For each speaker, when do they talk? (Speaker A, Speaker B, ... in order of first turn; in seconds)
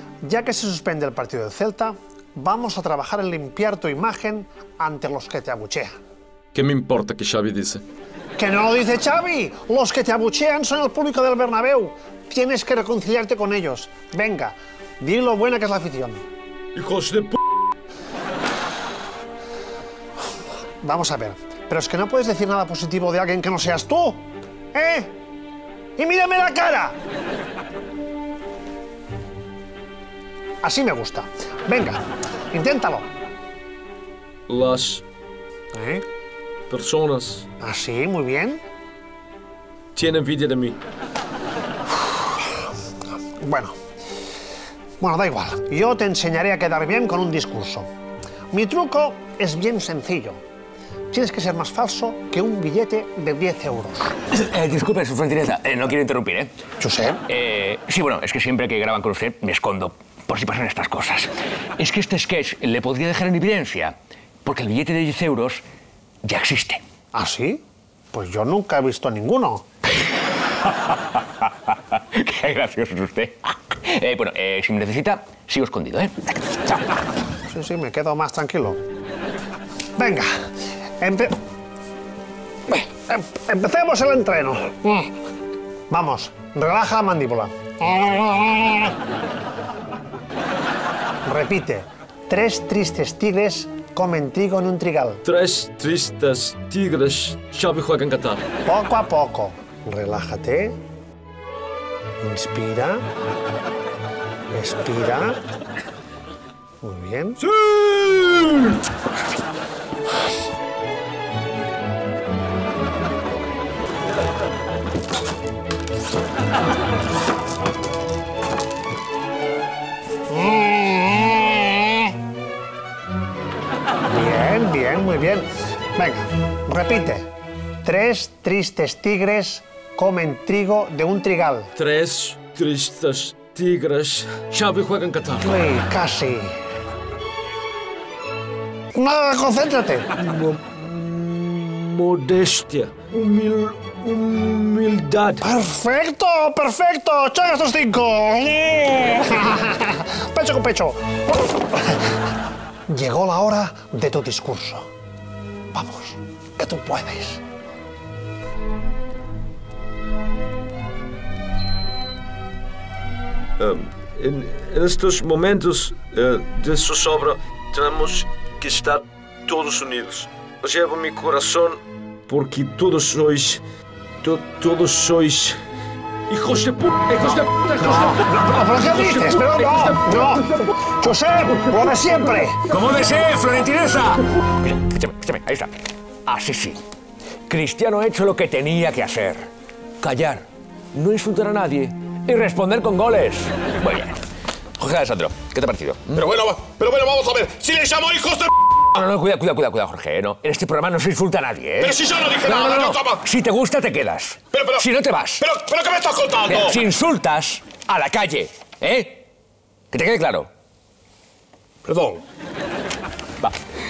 Speaker A: 0.2-5.9, 8.4-16.2, 20.8-25.1, 26.0-26.9, 30.6-33.0, 35.7-36.0, 37.6-38.6, 43.4-43.7, 45.0-47.9, 48.5-50.4, 51.1-54.2, 56.8-57.2, 67.1-67.6, 68.1-69.6, 77.5-78.8, 80.0-80.3, 81.0-81.3, 82.7-85.1, 85.9-89.0, 91.2-95.2, 98.6-100.8, 102.2-103.0, 104.5-105.4, 106.8-107.4, 120.3-122.1, 124.1-127.3, 127.8-131.7, 135.4-136.6, 138.9-140.1, 145.4-152.3, 152.9-154.8, 155.7-157.4, 177.8-182.6
Speaker B: 6.5-7.8, 16.7-17.4, 34.5-35.0, 36.7-37.5, 39.9-40.8, 95.2-98.4, 107.5-108.8, 131.8-135.6, 140.2-145.5, 163.6-173.6, 174.2-175.6, 176.3-180.4
Speaker C: 54.3-56.5, 57.2-65.6, 66.2-66.8, 70.6-71.2, 71.9-76.8, 182.7-185.7, 186.2-186.8, 187.5-189.5, 190.0-194.2, 194.8-196.4, 198.8-205.6, 206.4-209.2, 209.9-210.5
Speaker D: 196.2-198.5, 201.8-203.2, 204.5-204.8, 205.4-206.8, 211.8-212.2